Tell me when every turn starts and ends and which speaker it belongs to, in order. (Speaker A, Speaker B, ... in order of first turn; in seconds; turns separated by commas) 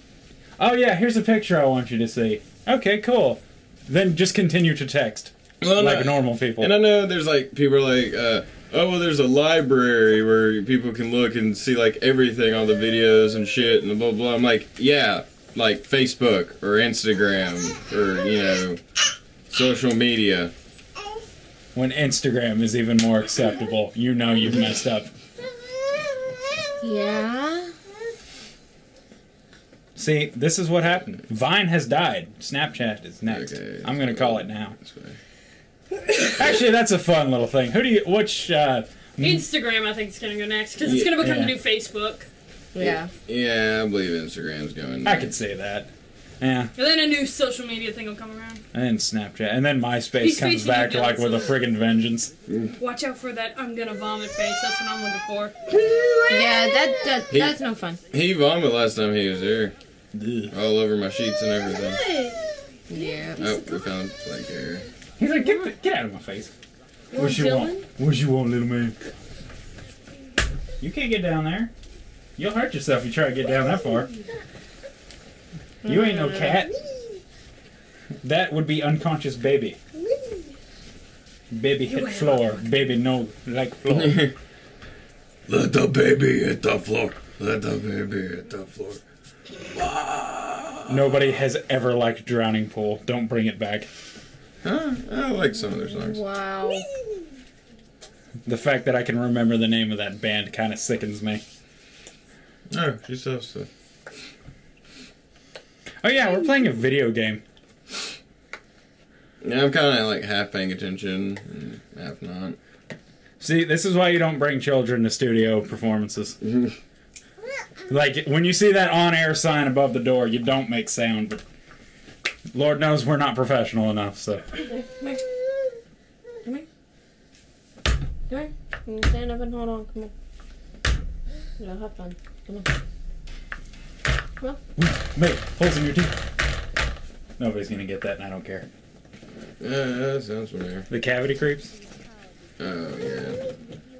Speaker A: 0.6-6.8, Speaker B: 5.6-18.8, Speaker B: 19.5-20.5, Speaker A: 21.7-25.1, Speaker C: 26.8-27.7, Speaker A: 29.9-34.8, Speaker B: 33.3-35.2, Speaker A: 36.4-39.4, Speaker D: 39.2-42.3, Speaker B: 40.8-41.2, Speaker A: 41.2-41.5, Speaker C: 42.7-43.1, Speaker B: 42.8-45.3, Speaker A: 45.0-46.7, Speaker D: 46.7-48.6, Speaker A: 48.7-52.3, Speaker D: 50.2-51.6, Speaker D: 52.8-56.9, Speaker C: 56.3-58.0, Speaker B: 57.3-57.5, Speaker B: 58.1-59.7, Speaker A: 60.1-60.5, Speaker B: 60.5-62.0, Speaker D: 61.7-62.4, Speaker C: 62.9-63.5, Speaker D: 63.0-63.9, Speaker B: 63.4-64.9, Speaker A: 65.2-66.5, Speaker D: 67.1-67.8, Speaker A: 67.1-69.0, Speaker A: 70.8-71.7, Speaker A: 72.4-74.1, Speaker C: 75.8-76.9, Speaker A: 75.8-76.7, Speaker A: 78.2-79.8, Speaker A: 81.5-84.3, Speaker D: 81.9-82.6, Speaker B: 83.9-84.3, Speaker B: 85.5-89.0, Speaker B: 89.7-91.0, Speaker A: 90.9-93.9, Speaker B: 94.6-96.2, Speaker C: 95.9-96.9, Speaker A: 98.4-101.4, Speaker B: 102.7-103.7, Speaker A: 106.0-107.4, Speaker B: 109.4-112.6, Speaker A: 113.4-116.4, Speaker B: 116.4-116.7, Speaker A: 117.9-121.4, Speaker A: 122.5-124.5, Speaker C: 124.7-125.3, Speaker C: 128.3-130.1, Speaker C: 131.6-132.7, Speaker A: 134.8-136.2, Speaker A: 137.4-138.7, Speaker B: 139.6-140.9, Speaker A: 140.9-141.7, Speaker B: 142.6-143.4